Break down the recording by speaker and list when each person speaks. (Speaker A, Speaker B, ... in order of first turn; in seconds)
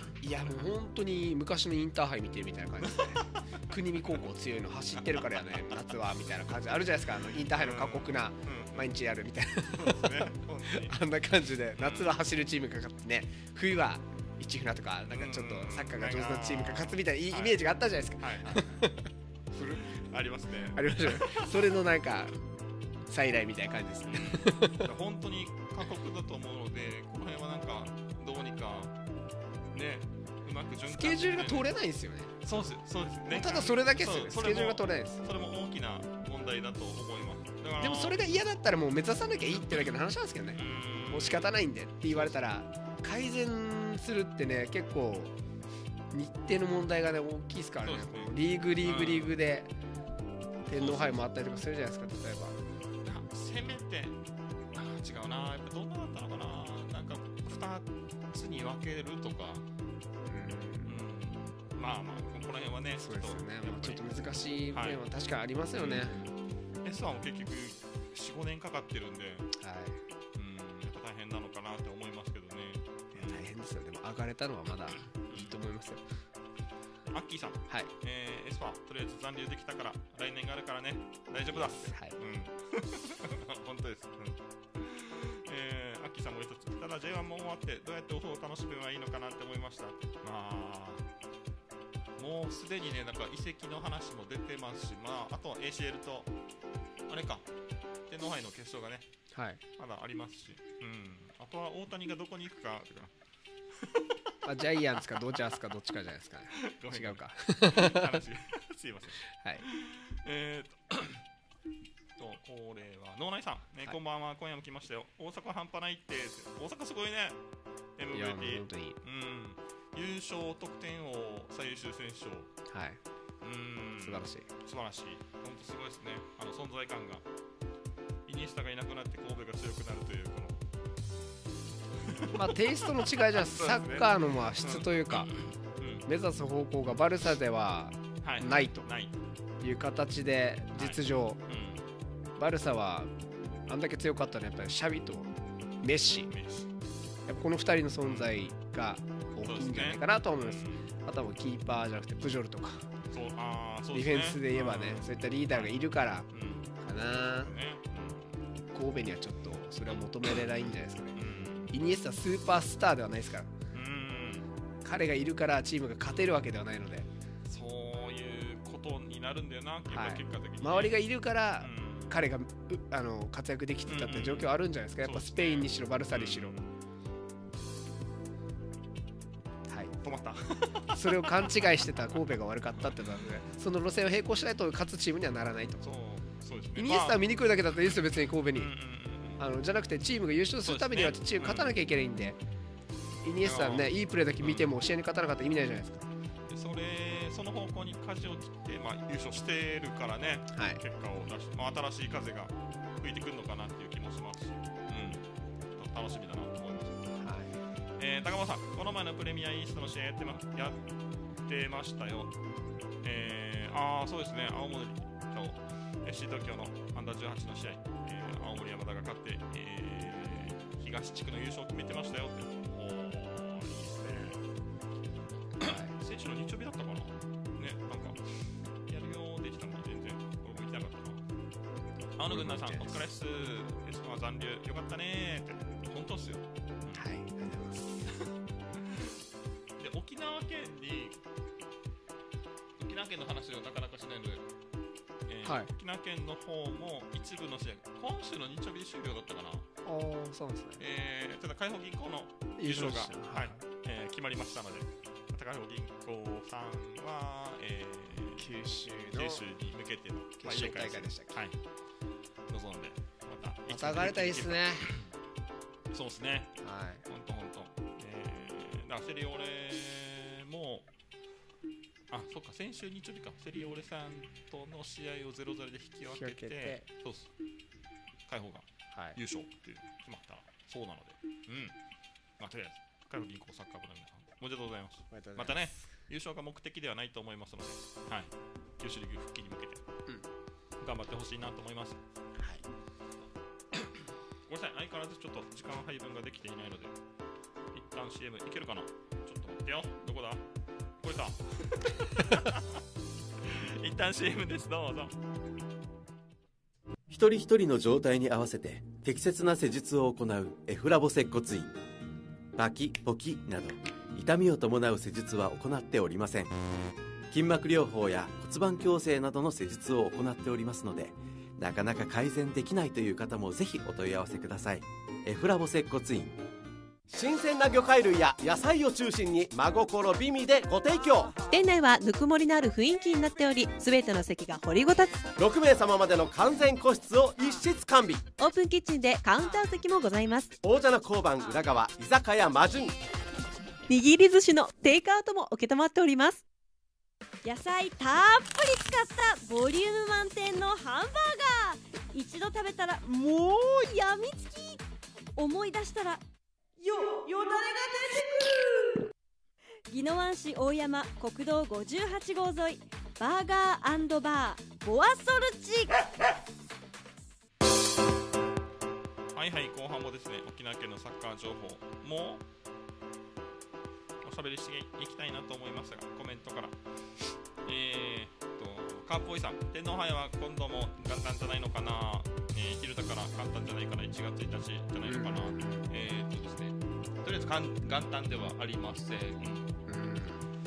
Speaker A: 0.2-19.1, 20.8-22.4, 23.1-24.9, 30.9-32.4, 33.3-35.2, 37.8-45.4, 46.1-49.7, 50.7-52.6, 60.2-61.0, 63.0-66.2, 69.5-70.0, 73.1-76.0, 81.5-82.2, 99.3-99.6, 104.4-108.2, 109.2-109.6, 118.1-119.0, 122.7-123.0, 124.0-124.5, 132.3-135.3, 136.1-138.9, 139.6-141.4, 142.4-143.1, 143.7-146.3, 147.2-152.9, 153.9-157.5, 158.7-163.5, 164.8-167.1, 169.9-176.6, 179.7-180.0, 180.9-185.8, 186.8-188.7, 189.4-192.4, 193.2-196.1, 200.5-200.8, 207.2-207.6, 225.6-225.9, 232.3-233.0, 236.9-238.0, 245.4-245.7, 249.8-250.8, 252.6-253.6, 258.4-259.4, 260.4-261.4, 263.7-264.9, 266.6-267.1, 276.1-276.9, 278.9-279.2, 285.1-285.9, 292.4-292.6, 385.1-385.9, 389.9-390.5
Speaker B: 5.0-5.7, 7.5-8.9, 9.7-11.0, 11.8-12.2, 15.1-17.6, 18.2-18.7, 19.6-21.8, 24.1-28.9, 29.7-31.7, 32.4-38.2, 40.6-41.5, 42.1-42.4, 47.8-49.4, 50.7-51.2, 53.0-54.2, 54.8-59.6, 60.9-64.0, 64.7-65.0, 65.7-69.5, 70.4-73.5, 75.3-75.6, 77.1-91.0, 92.2-96.3, 97.1-97.5, 98.1-99.1, 99.8-103.1, 103.8-104.2, 106.5-111.2, 112.2-117.4, 118.0-122.5, 123.4-127.2, 128.2-130.6, 132.0-136.1, 138.2-139.2, 140.8-141.9, 146.3-146.7, 148.0-148.4, 149.4-150.9, 153.1-155.8, 156.3-156.7, 157.4-158.4, 161.2-161.8, 163.7-164.5, 167.5-171.0, 171.6-172.2, 173.9-176.7, 180.0-181.5, 185.8-187.2, 188.5-189.5, 190.6-191.8, 193.4-194.7, 196.5-207.1, 208.0-210.8, 211.4-212.3, 213.0-224.4, 225.6-231.2, 232.2-237.1, 238.0-239.2, 239.8-241.2, 242.8-244.5, 245.3-249.7, 250.8-258.5, 259.1-261.6, 262.5-265.1, 265.9-270.9, 272.1-277.3, 278.3-281.8, 282.4-289.8, 290.8-292.0, 294.5-297.0, 297.7-300.4, 301.0-302.8, 303.4-305.1, 369.3-372.4, 374.2-389.7
Speaker C: 307.1-311.8, 312.6-316.5, 317.3-326.4
Speaker D: 327.1-331.4, 335.4-338.2, 340.6-343.0
Speaker E: 331.5-335.3, 338.4-340.5, 343.9-346.4
Speaker F: 347.4-354.8, 355.4-356.2, 356.8-359.1, 359.9-366.1